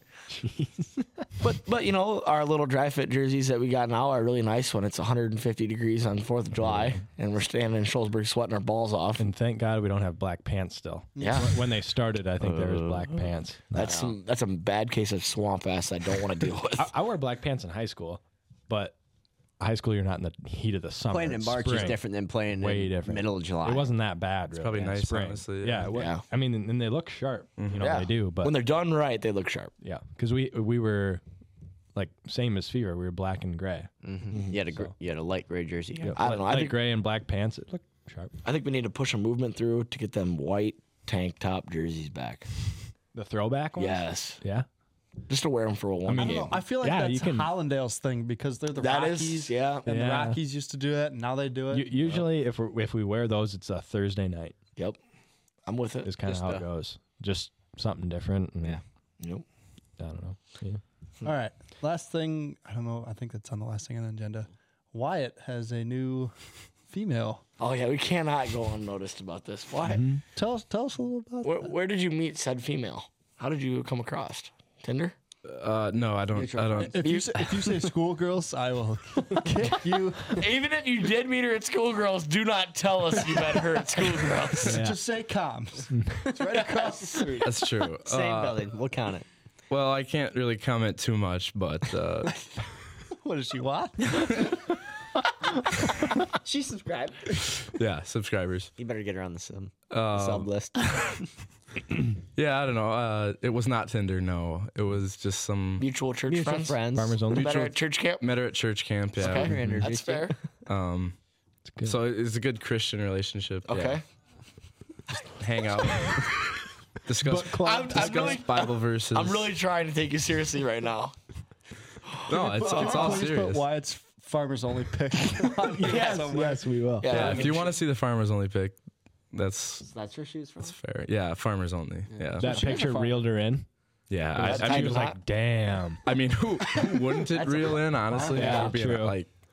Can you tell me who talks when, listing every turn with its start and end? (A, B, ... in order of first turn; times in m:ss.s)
0:00.3-0:01.2 A
0:01.4-0:09.2 B
0:06.6-0:07.0 A
0:09.2-0:13.9 A
0:11.2-0:11.6 C
0:11.2-0:11.6 B
0:12.4-0:13.3 D
0:13.7-0:16.9 B
0:13.8-0:14.2 D
0:16.7-0:19.0 A
0:19.6-0:28.6 A
0:21.1-0:23.9 D
0:24.5-0:25.9 E
0:25.9-0:26.2 B
0:27.6-0:27.9 E
0:27.8-0:29.7 B
0:29.8-0:31.2 A
0:32.0-0:33.9 A
0:34.0-0:36.2 D
0:34.3-0:34.6 B
0:36.0-0:38.4 A
0:36.2-0:36.8 B
0:38.4-0:42.5 B
0:43.1-0:44.7 A
0:43.8-0:44.4 B
0:45.3-0:46.6 B
0:46.1-0:47.5 A
0:46.2-0:52.1 C
0:48.8-0:49.9 B
0:49.9-0:50.4 A
0:51.7-0:54.6 A
0:55.7-0:56.1 B
0:56.0-0:58.8 A
0:56.2-0:56.6 D
1:00.0-1:00.8 A
1:01.2-1:06.3 C
1:06.9-1:07.4 C
1:07.6-1:10.0 B
1:09.9-1:10.2 A
1:09.9-1:11.7 C
1:11.4-1:15.2 B
1:15.5-1:17.0 E
1:16.3-1:17.0 D
1:16.7-1:20.4 C
1:17.0-1:17.6 B
1:20.2-1:24.8 B
1:24.1-1:27.5 C
1:24.7-1:25.0 A
1:25.9-1:26.3 A
1:26.3-1:27.4 D
1:26.4-1:27.4 B
1:27.4-1:28.7 E
1:28.0-1:29.3 D
1:29.7-1:32.5 E
1:33.2-1:34.4 C
1:34.2-1:34.5 D
1:36.3-1:37.5 D
1:37.6-1:38.7 E
1:38.8-1:41.1 D
1:39.9-1:40.5 E
1:40.2-1:41.0 B
1:42.4-1:45.8 E
1:45.8-1:48.2 B
1:46.3-1:47.2 D
1:46.9-1:47.7 A
1:47.3-1:49.6 E
1:49.2-1:50.4 B
1:49.2-1:50.4 D
1:49.5-1:49.9 A
1:50.7-1:51.2 E
1:51.7-1:52.0 A
1:51.8-1:54.0 E
1:53.7-1:54.0 B
1:55.1-1:56.5 E
1:57.0-1:59.5 E
1:57.2-1:58.4 A
1:57.6-2:01.1 B
2:02.1-2:03.2 B
2:02.3-2:03.6 E
2:02.3-2:07.1 C
2:05.8-2:07.8 B
2:05.8-2:06.1 D
2:05.9-2:07.4 A
2:07.1-2:08.8 E
2:09.3-2:09.9 E
2:09.8-2:10.8 D
2:10.6-2:12.5 E
2:12.1-2:12.6 D
2:12.4-2:13.7 A
2:12.4-2:13.3 C
2:12.5-2:12.9 B
2:14.1-2:15.1 E
2:14.3-2:16.0 A
2:14.4-2:15.2 B
2:16.0-2:19.3 E
2:17.2-2:18.8 D
2:18.3-2:19.2 A